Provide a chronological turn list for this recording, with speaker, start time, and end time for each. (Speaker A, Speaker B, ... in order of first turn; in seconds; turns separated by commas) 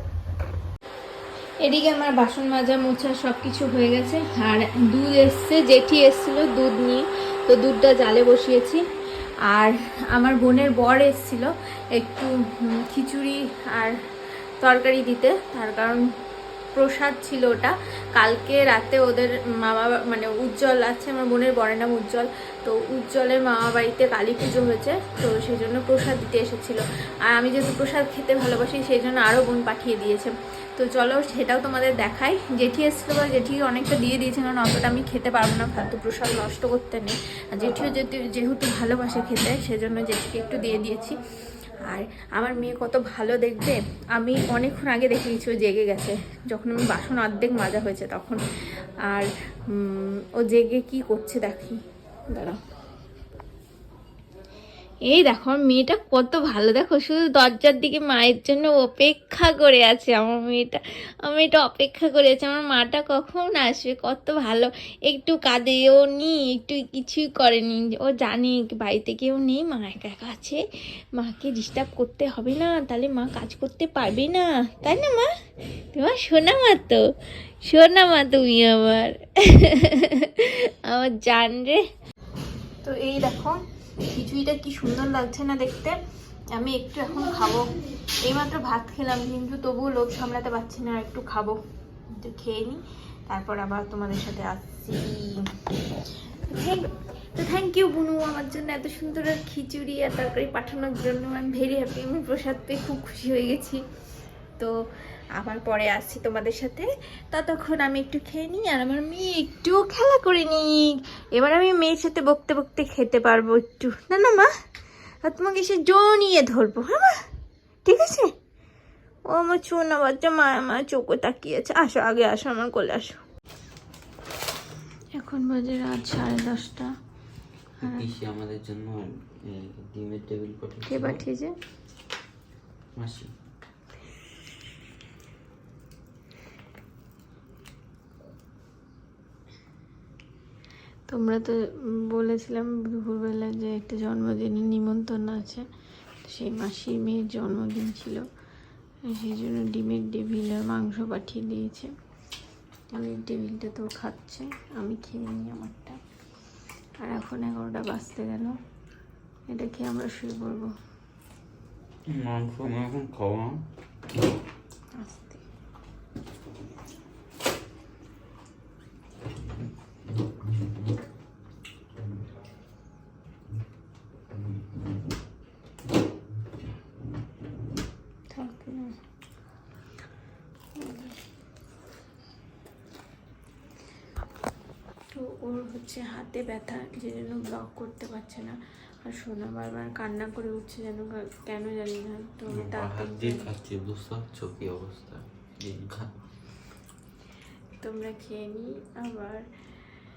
Speaker A: 1.6-8.8, Speaker A: 9.5-14.0, Speaker A: 14.6-16.0, Speaker A: 16.8-41.2, Speaker A: 41.9-48.4, Speaker A: 49.1-51.8, Speaker A: 52.3-52.6, Speaker A: 55.1-70.6, Speaker A: 71.2-75.3, Speaker A: 75.9-77.1, Speaker A: 77.7-81.8, Speaker A: 82.8-86.0, Speaker A: 86.5-87.7, Speaker A: 88.2-91.6, Speaker A: 92.2-95.5, Speaker A: 96.5-103.8, Speaker A: 105.4-114.5, Speaker A: 115.2-117.2, Speaker A: 117.8-118.3, Speaker A: 119.3-123.2, Speaker A: 125.2-126.9, Speaker B: 127.8-131.2, Speaker A: 130.9-131.6, Speaker B: 133.0-133.3, Speaker A: 141.1-145.7, Speaker A: 146.2-148.2, Speaker A: 149.1-151.9, Speaker A: 152.9-156.0, Speaker A: 157.0-158.6, Speaker A: 159.5-160.7, Speaker B: 162.1-163.6, Speaker A: 165.0-165.4, Speaker A: 178.3-178.9, Speaker A: 180.8-181.1, Speaker A: 185.1-193.5, Speaker B: 192.6-196.1, Speaker A: 197.8-199.4